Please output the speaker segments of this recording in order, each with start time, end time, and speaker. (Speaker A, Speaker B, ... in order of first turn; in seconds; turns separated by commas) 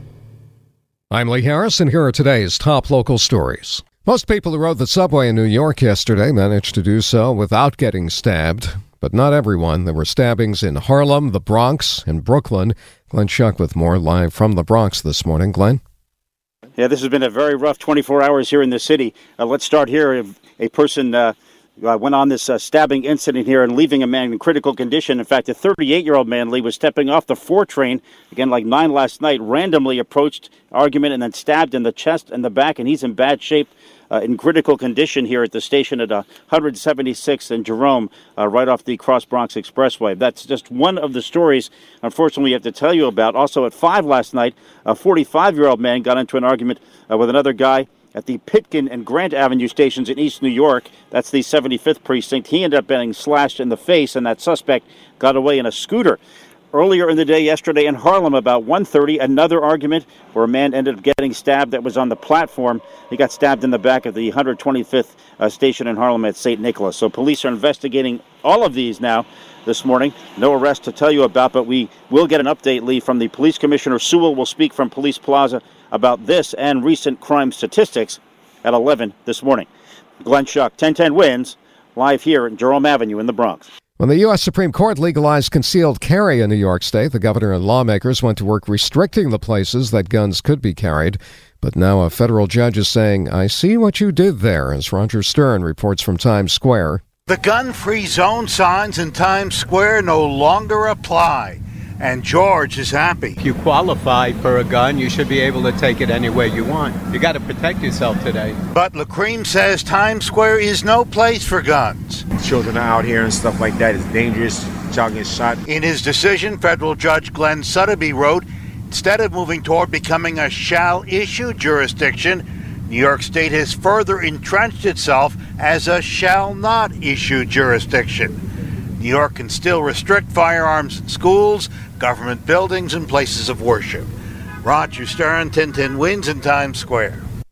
Speaker A: 1.1-15.8, Speaker B: 16.8-56.2, Speaker B: 56.7-79.7, Speaker B: 80.2-83.7, Speaker A: 84.0-97.0, Speaker C: 97.3-103.4, Speaker D: 103.4-108.6, Speaker C: 108.7-112.2, Speaker E: 112.4-115.6, Speaker C: 115.7-128.4, Speaker C: 129.0-134.1, Speaker C: 134.6-137.2